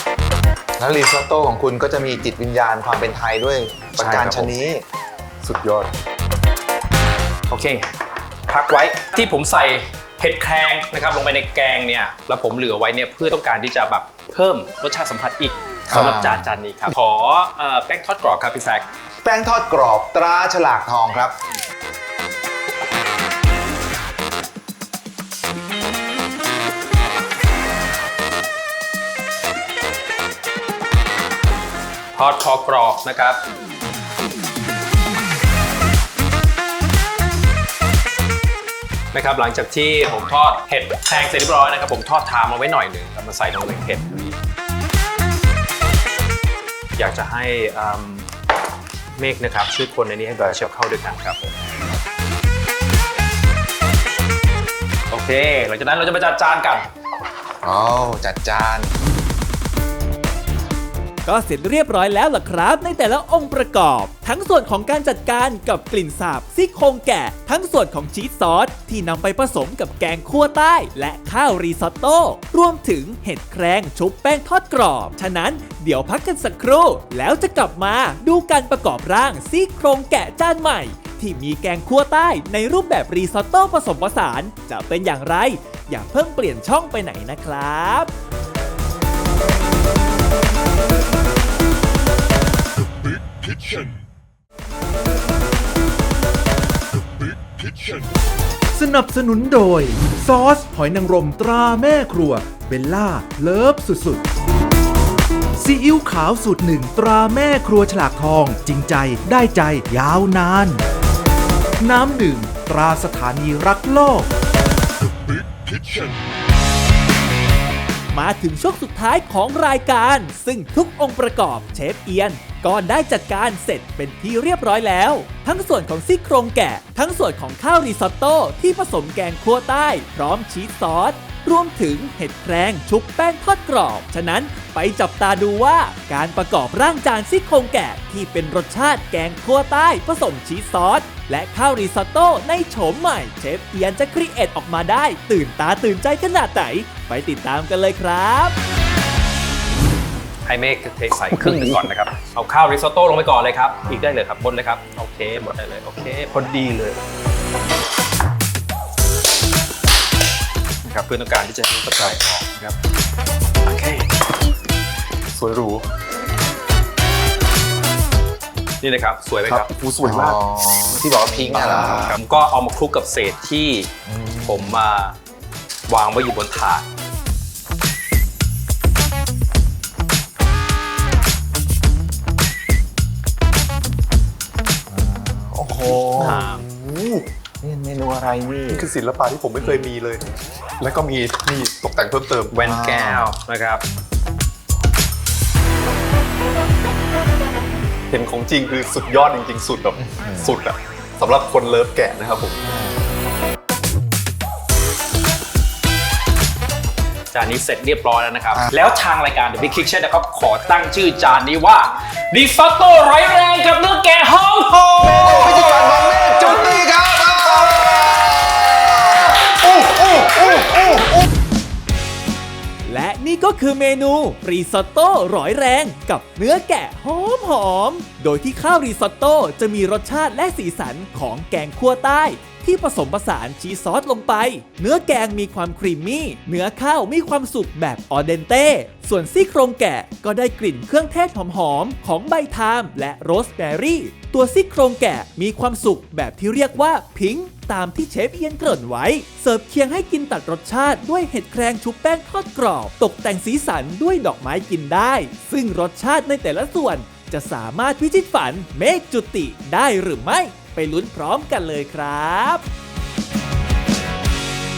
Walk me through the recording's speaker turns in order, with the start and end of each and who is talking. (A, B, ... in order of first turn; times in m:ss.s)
0:00.8-0:04.8 A
0:04.0-0:04.5 B
0:05.4-0:05.9 C
0:07.5-0:07.9 B
0:08.5-0:18.9 B
0:15.9-0:16.4 A
0:19.2-0:21.4 A
0:32.1-0:33.4 B
0:39.1-0:44.4 B
0:47.0-0:48.3 B
0:49.2-0:51.5 B
0:55.1-0:56.8 B
0:57.6-0:58.9 A
1:01.2-1:28.1 D
1:38.7-1:44.2 E
1:45.6-1:50.8 E
1:51.8-1:54.3 E
1:58.1-2:28.6 D
2:30.4-2:37.0 B
2:31.3-2:31.8 C
2:40.8-2:42.8 B
2:43.7-2:44.1 B
2:45.3-2:45.8 C
2:48.8-2:49.7 B
2:49.5-2:50.4 C
2:50.0-2:52.2 A
2:50.9-2:53.9 B
2:51.1-2:52.1 C
2:54.1-2:54.8 A
2:54.4-2:55.2 B
2:55.9-2:56.8 B
3:04.9-3:06.4 A
3:06.1-3:07.2 C
3:06.2-3:06.6 B
3:07.6-3:08.9 A
3:08.7-3:10.2 C
3:10.8-3:12.6 C
3:12.5-3:13.8 B
3:12.6-3:13.3 A
3:18.1-3:22.6 C
3:20.0-3:20.6 A
3:22.6-3:23.0 A
3:27.3-3:35.6 B
3:35.0-3:41.2 A
3:42.8-4:22.6 D